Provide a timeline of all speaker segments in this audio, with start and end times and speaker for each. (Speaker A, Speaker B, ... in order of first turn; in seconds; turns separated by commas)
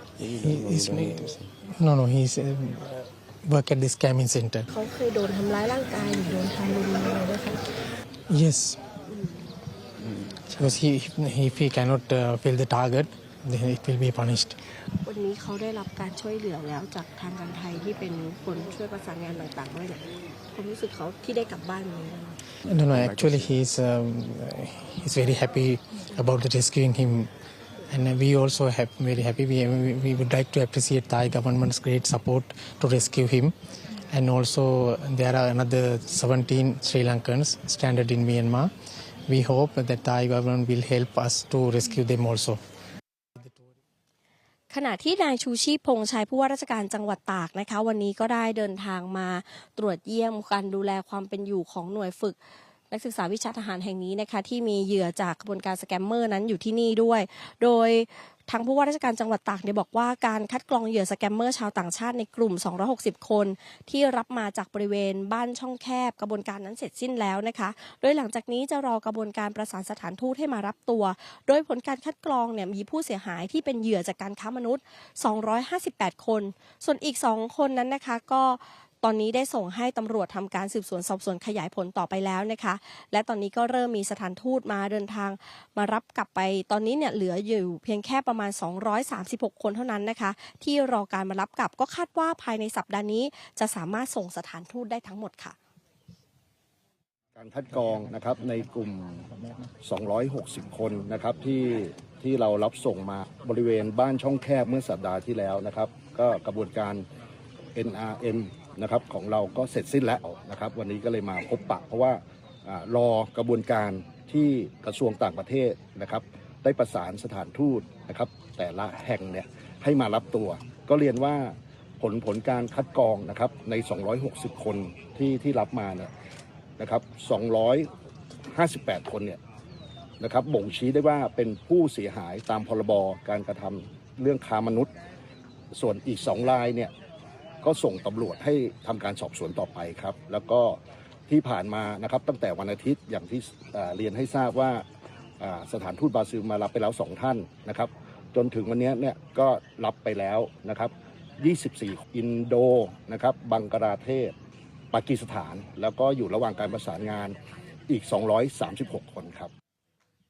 Speaker A: 0.2-1.5, Speaker B: 0.4-4.7, Speaker C: 4.7-7.6, Speaker B: 8.3-8.8, Speaker C: 9.1-9.4, Speaker A: 10.0-10.7, Speaker B: 10.6-14.6, Speaker C: 15.0-22.4, Speaker B: 22.7-27.3, Speaker A: 22.7-23.6, Speaker B: 27.9-33.5, Speaker B: 34.1-38.7, Speaker B: 39.3-42.6, Speaker C: 44.7-52.4, Speaker C: 52.9-95.6, Speaker D: 97.4-99.3, Speaker D: 99.8-107.0, Speaker D: 107.8-126.1, Speaker D: 126.8-127.9, Speaker D: 128.5-129.4, Speaker D: 130.2-134.9, Speaker D: 135.7-136.9, Speaker D: 137.6-144.8, Speaker D: 145.4-154.3, Speaker D: 154.9-157.4, Speaker D: 157.9-159.5